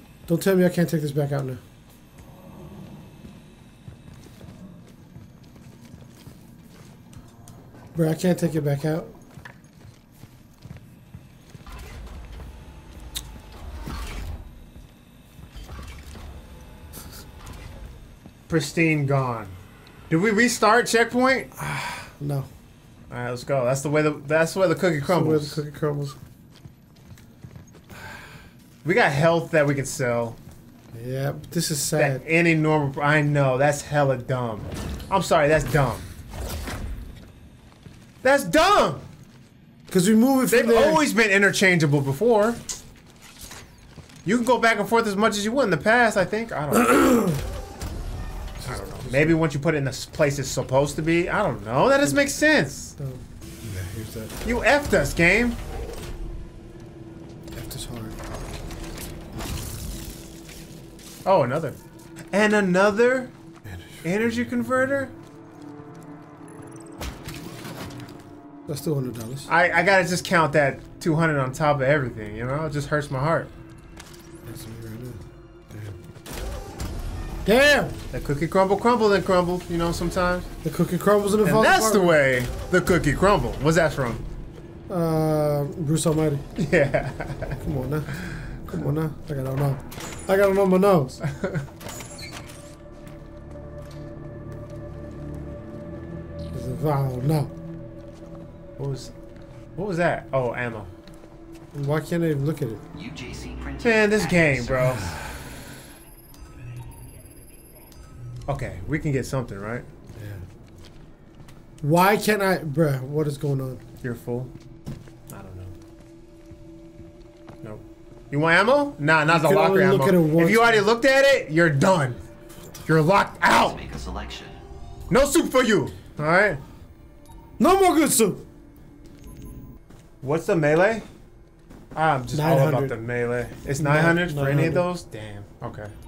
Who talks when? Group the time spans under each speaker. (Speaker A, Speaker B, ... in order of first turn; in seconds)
Speaker A: 0.3-1.6, 8.0-9.1, 21.6-22.5, 25.1-26.2, 30.9-32.2, 39.9-41.0, 46.8-47.4, 48.6-49.4, 53.0-54.3, 57.5-58.4, 63.7-63.9, 68.7-69.5, 74.5-76.0, 77.5-78.0, 80.6-82.2, 84.9-86.4, 87.6-91.2, 96.5-97.5, 101.7-102.8, 110.2-110.4, 111.8-113.8, 119.3-120.8, 127.6-128.4, 132.3-133.0, 133.8-134.9
Speaker B: 18.5-19.6, 20.1-21.5, 23.1-25.6, 28.8-30.4, 32.0-36.1, 38.2-39.1, 40.5-42.6, 44.2-47.0, 48.7-53.0, 54.4-55.6, 61.2-61.8, 62.3-63.3, 64.0-65.1, 69.5-73.5, 78.1-80.5, 81.4-84.2, 86.6-87.6, 91.2-91.7, 98.8-99.1, 99.8-100.9, 103.8-105.1, 108.5-109.9, 114.0-114.5, 115.3-115.8, 117.6-122.2, 122.9-123.8, 125.1-126.6, 130.2-131.1, 131.9-135.9
Speaker C: 102.9-105.2, 123.5-124.6